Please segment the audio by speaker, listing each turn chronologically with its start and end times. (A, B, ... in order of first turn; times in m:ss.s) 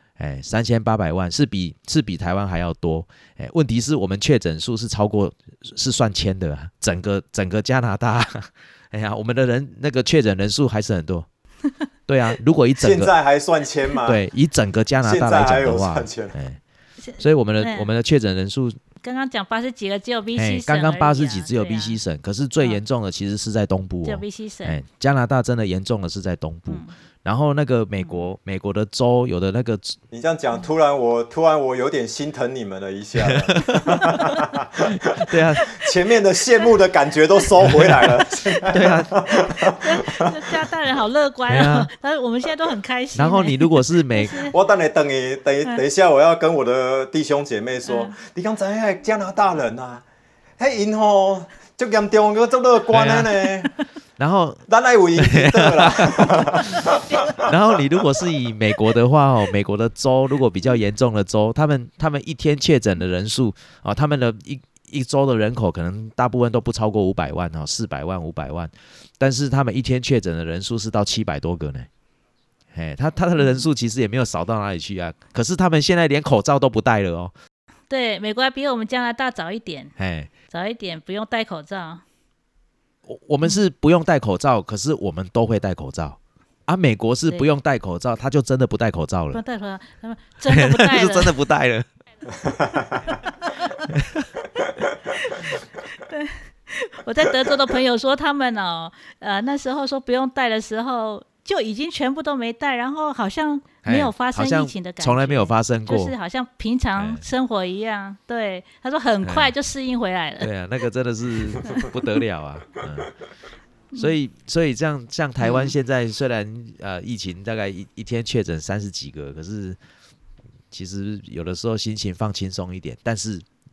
0:00.2-0:11.3 A
0:12.1-0:13.1 A
0:12.8-0:14.2 B
0:14.0-0:16.6 A
0:15.0-0:16.4 B
0:17.0-0:17.9 C
0:17.2-0:18.8 A
0:19.0-0:22.0 C
0:20.4-0:30.0 A
0:24.0-0:24.8 C
0:26.7-0:26.9 C
0:30.1-0:40.5 B
0:33.2-0:34.3 A
0:34.9-0:35.7 A
0:38.7-0:39.3 A
0:39.8-0:44.5 C
0:41.5-0:41.9 A
0:43.2-0:44.5 A
0:44.5-0:50.0 B
0:47.9-0:48.2 C
0:50.6-0:53.7 B
0:52.9-0:53.3 A
0:54.2-0:54.6 A
0:54.7-0:57.5 B
0:55.2-0:56.6 A
0:56.8-0:57.4 C
0:57.4-1:11.9 A
1:12.7-1:17.3 A
1:17.9-1:20.0 C
1:20.0-1:20.3 A
1:20.5-1:22.0 C
1:23.1-1:29.4 A
1:29.3-1:31.4 C
1:30.5-1:31.9 A
1:32.4-1:33.0 B
1:33.9-1:34.3 A
1:35.3-1:50.5 C
1:43.8-1:46.2 A
1:47.0-1:47.2 A
1:49.2-1:49.5 A
1:50.4-1:53.1 A
1:53.9-1:59.8 A
1:55.4-1:55.7 C
2:00.7-2:03.5 A